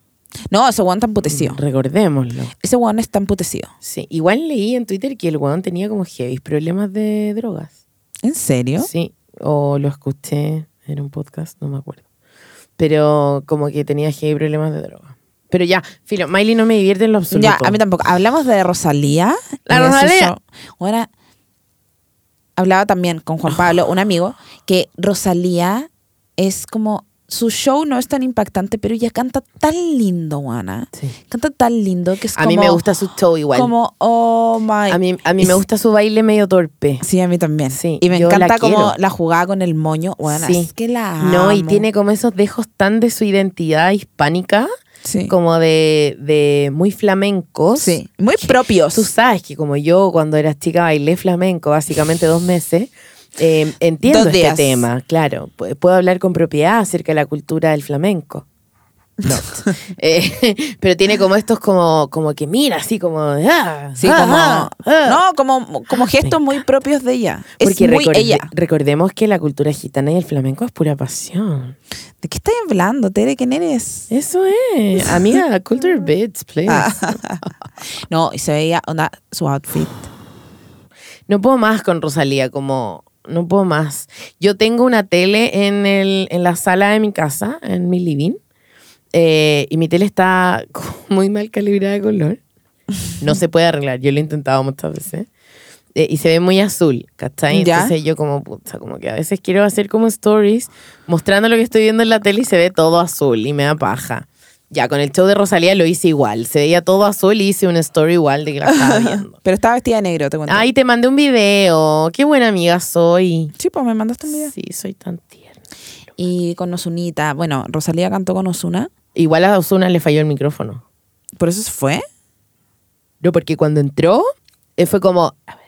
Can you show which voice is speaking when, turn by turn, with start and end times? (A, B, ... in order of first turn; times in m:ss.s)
0:00.5-0:01.6 A
0:01.2-0:02.5 B
0:02.6-0:03.7 A
0:03.8-0:07.7 B
0:08.2-0:08.9 A
0:08.8-0:12.0 B
0:12.8-0:17.8 B
0:17.3-0:21.1 A
0:19.7-0:20.3 B
0:22.6-0:32.8 A
0:32.4-0:33.7 B
0:33.5-0:35.6 A
0:34.9-0:37.0 B
0:37.0-0:41.8 A
0:37.7-0:39.0 B
0:40.3-0:44.7 B
0:45.0-0:45.3 A
0:45.3-0:58.5 B
0:47.8-0:49.1 A
0:54.0-0:54.9 A
0:59.2-1:05.2 B
1:04.0-1:08.5 A
1:07.6-1:11.8 B
1:12.2-1:14.1 A
1:14.1-1:17.5 B
1:16.7-1:17.4 A
1:18.1-1:20.1 A
1:21.3-1:28.4 B
1:29.1-1:32.4 B
1:33.2-1:35.3 B
1:36.0-1:49.4 B
1:37.5-1:37.9 A
1:48.7-1:50.7 A
1:50.5-1:53.5 B
1:53.6-1:54.5 A
1:54.3-1:55.6 B
1:56.2-1:58.9 A
1:59.2-2:00.8 B
2:01.4-2:02.0 A
2:03.2-2:04.2 B
2:04.8-2:05.4 B